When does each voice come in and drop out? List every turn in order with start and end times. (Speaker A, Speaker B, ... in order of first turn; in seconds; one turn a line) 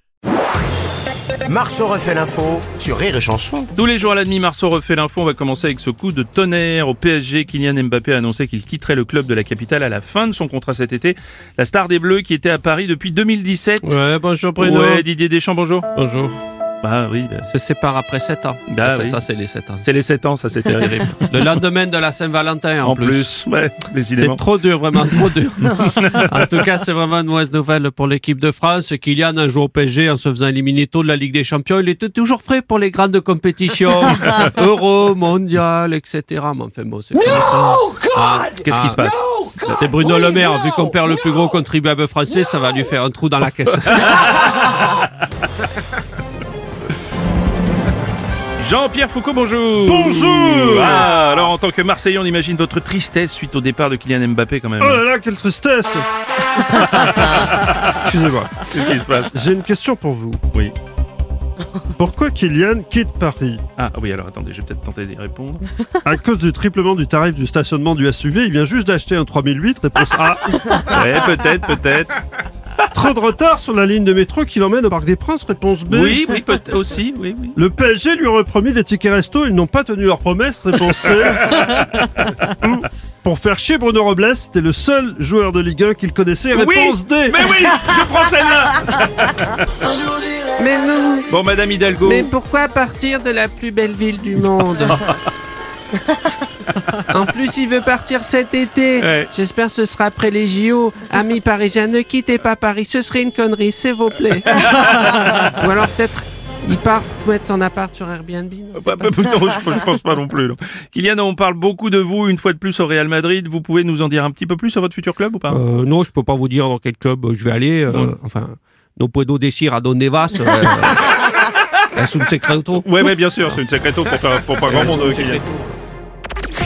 Speaker A: 1.4-3.7
Speaker B: 3.7-14.0
Speaker C: 13.8-15.0
Speaker B: 14.6-15.9
Speaker C: 15.9-16.4
Speaker B: 16.8-17.5
Speaker C: 17.5-19.9
Speaker B: 18.7-19.2
Speaker B: 19.8-21.6
Speaker C: 20.8-23.3
Speaker B: 22.8-24.4
Speaker C: 24.2-39.0
Speaker B: 25.6-26.6
Speaker B: 38.6-39.9
Speaker C: 39.8-44.4
Speaker B: 44.0-45.1
Speaker B: 48.6-55.0
Speaker D: 49.8-51.1
Speaker D: 54.8-56.0
Speaker D: 56.7-58.6
Speaker B: 56.8-57.9
Speaker B: 58.6-59.5
Speaker D: 59.3-60.4
Speaker D: 61.9-63.6
Speaker B: 63.8-65.7
Speaker D: 66.0-71.0
Speaker B: 70.8-72.2
Speaker D: 72.9-76.3
Speaker B: 75.9-77.6
Speaker D: 77.5-81.8
Speaker B: 80.8-82.5
Speaker D: 82.6-87.5
Speaker B: 86.5-89.9
Speaker E: 90.5-91.3
Speaker B: 91.3-92.3
Speaker E: 92.0-95.0
Speaker B: 94.8-95.2
Speaker B: 96.7-97.0
Speaker E: 97.1-109.6
Speaker B: 99.0-99.3
Speaker B: 104.6-105.5
Speaker B: 108.8-115.6
Speaker C: 115.5-121.0
Speaker B: 117.9-118.2
Speaker C: 121.9-122.8
Speaker B: 122.8-125.4
Speaker C: 124.7-125.5